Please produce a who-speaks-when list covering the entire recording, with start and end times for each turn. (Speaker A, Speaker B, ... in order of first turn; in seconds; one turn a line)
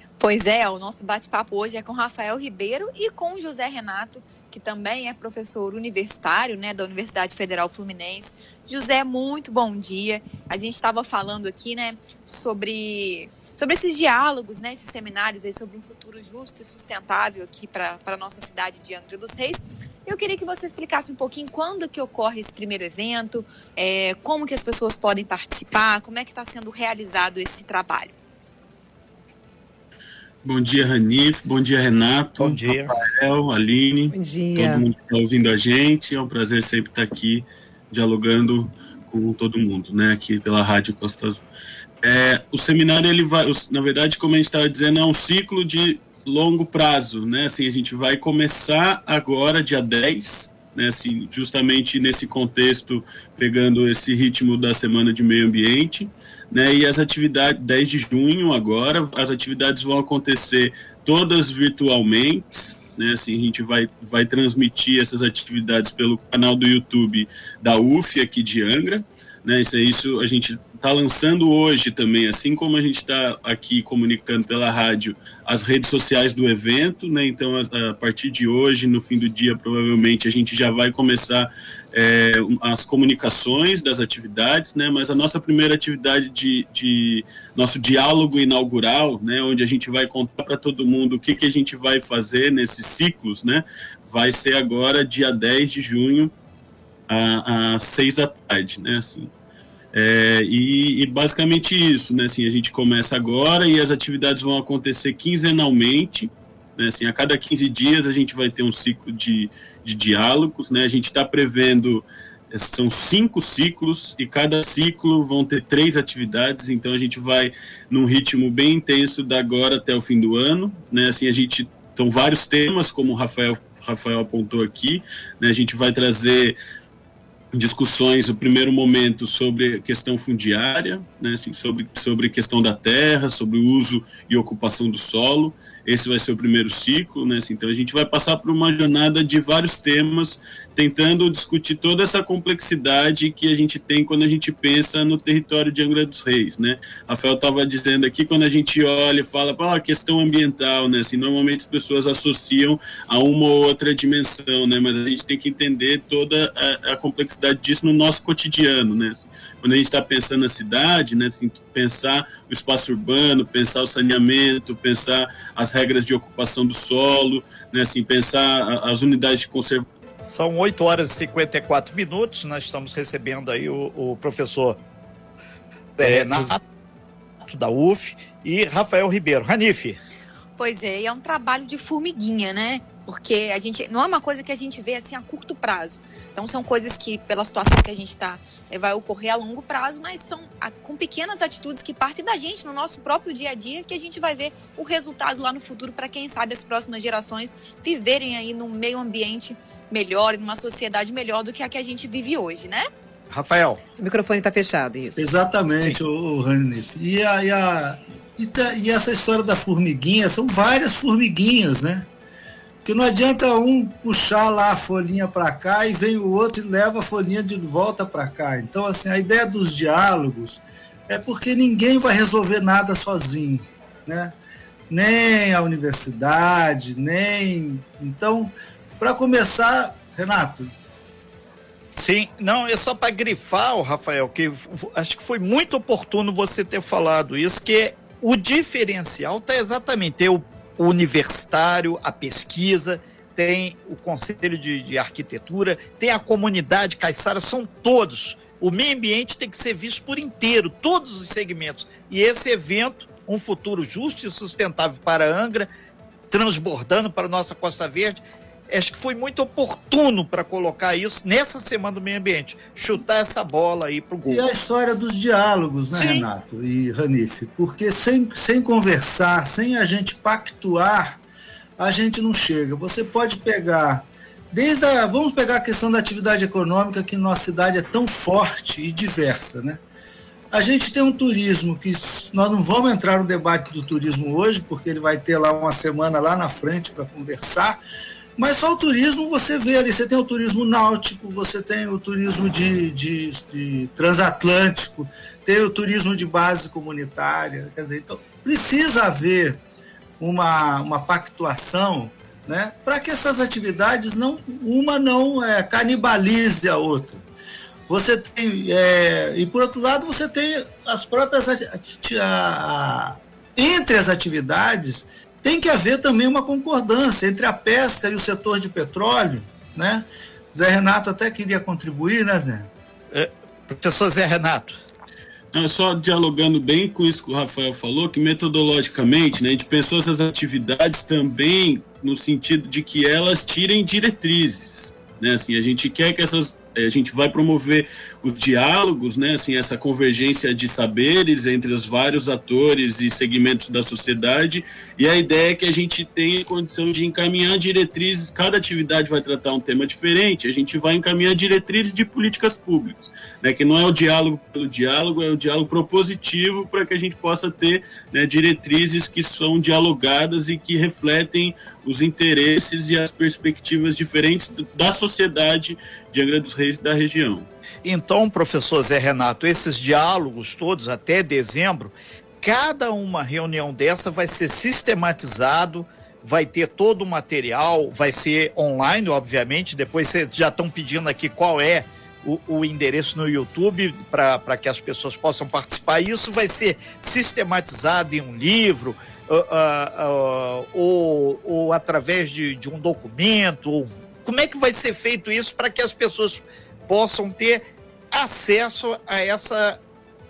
Speaker A: 0.2-28.1
Speaker B: 30.4-41.4
Speaker C: 32.4-32.9
Speaker D: 34.1-34.8
Speaker B: 42.0-96.3
Speaker B: 97.1-99.3
Speaker B: 99.9-126.6
Speaker B: 127.5-169.9
Speaker C: 170.2-174.8
Speaker C: 176.0-176.6
Speaker C: 177.4-180.0
Speaker A: 180.6-202.9
Speaker C: 203.3-203.8
Speaker D: 203.9-205.3
Speaker E: 205.2-212.1
Speaker E: 212.8-224.4
Speaker E: 224.9-230.7
Speaker C: 231.9-255.7
Speaker C: 256.3-264.5
Speaker E: 264.2-271.2
Speaker C: 265.9-266.3
Speaker E: 271.8-279.8
Speaker E: 280.5-287.8
Speaker E: 288.4-299.6
Speaker E: 300.2-307.3
Speaker E: 307.9-322.7
Speaker C: 323.1-324.8
Speaker B: 325.5-367.5
Speaker C: 367.8-399.8